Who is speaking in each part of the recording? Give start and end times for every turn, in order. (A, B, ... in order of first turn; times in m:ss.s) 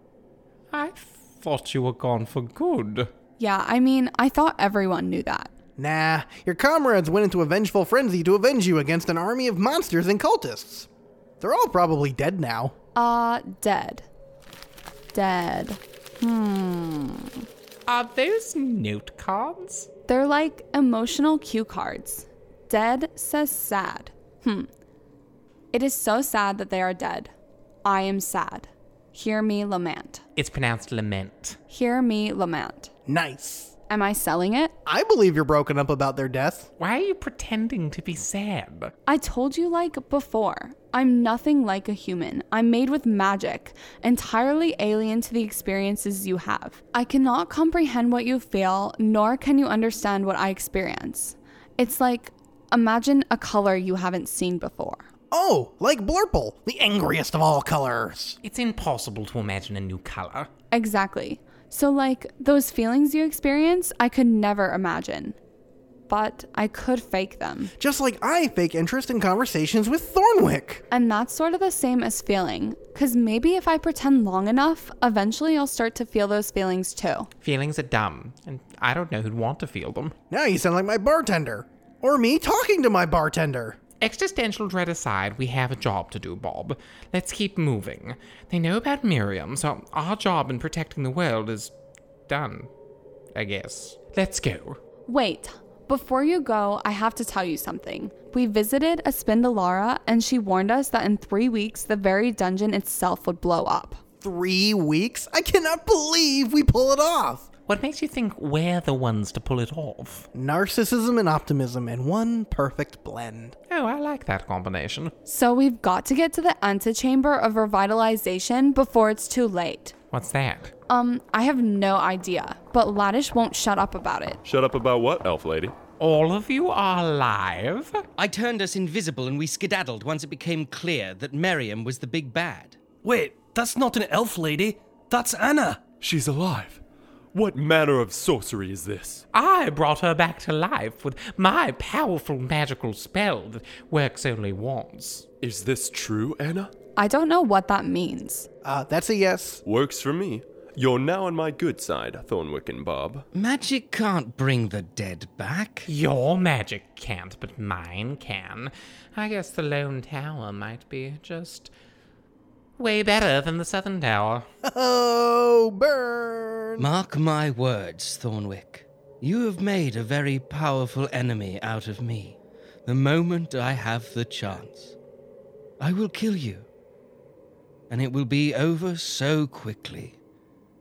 0:00.7-0:03.1 A
0:03.4-0:05.5 B
0:05.8-0:10.9 C
0:11.4-0:12.7 C
0:12.9-0:14.0 B
0:15.1-0:17.4 B
0:17.9-0:19.9 A
0:20.1-0:24.7 B
0:25.7-0:27.3 B
0:27.8-0:30.2 B
0:30.4-0:31.6 A
0:31.7-0:32.9 B
0:33.1-0:33.7 C
0:33.9-0:34.7 B
0:34.8-0:36.7 C
0:36.8-0:38.9 A
0:39.1-0:55.0 B
0:55.3-0:58.4 C
0:58.4-1:00.5 A
1:00.7-1:05.4 B
1:06.1-1:07.7 B
1:07.8-1:10.8 C
1:10.9-1:17.3 B
1:17.4-1:20.1 A
1:20.3-1:23.8 C
1:24.0-1:31.7 A
1:32.3-1:32.7 A
1:33.3-1:34.8 A
1:35.1-1:44.0 B
1:44.2-1:47.5 C
1:47.7-1:50.3 A
1:50.3-1:53.5 C
1:53.7-1:55.1 A
1:55.2-1:59.9 B
2:00.1-2:00.7 A
2:00.9-2:04.4 B
2:04.4-2:05.7 D
2:06.0-2:08.0 A
2:08.2-2:12.8 E
2:13.0-2:15.9 F
2:16.0-2:16.8 D
2:17.3-2:19.2 D
2:19.3-2:25.2 A
2:25.4-2:26.7 D
2:27.0-2:28.5 B
2:28.6-2:29.6 C
2:29.6-2:33.2 D
2:33.3-2:35.9 E
2:35.9-2:41.7 A
2:42.8-2:44.5 A
2:44.6-2:46.9 C
2:46.8-2:54.9 E
2:55.8-2:56.7 E
2:57.9-3:00.2 E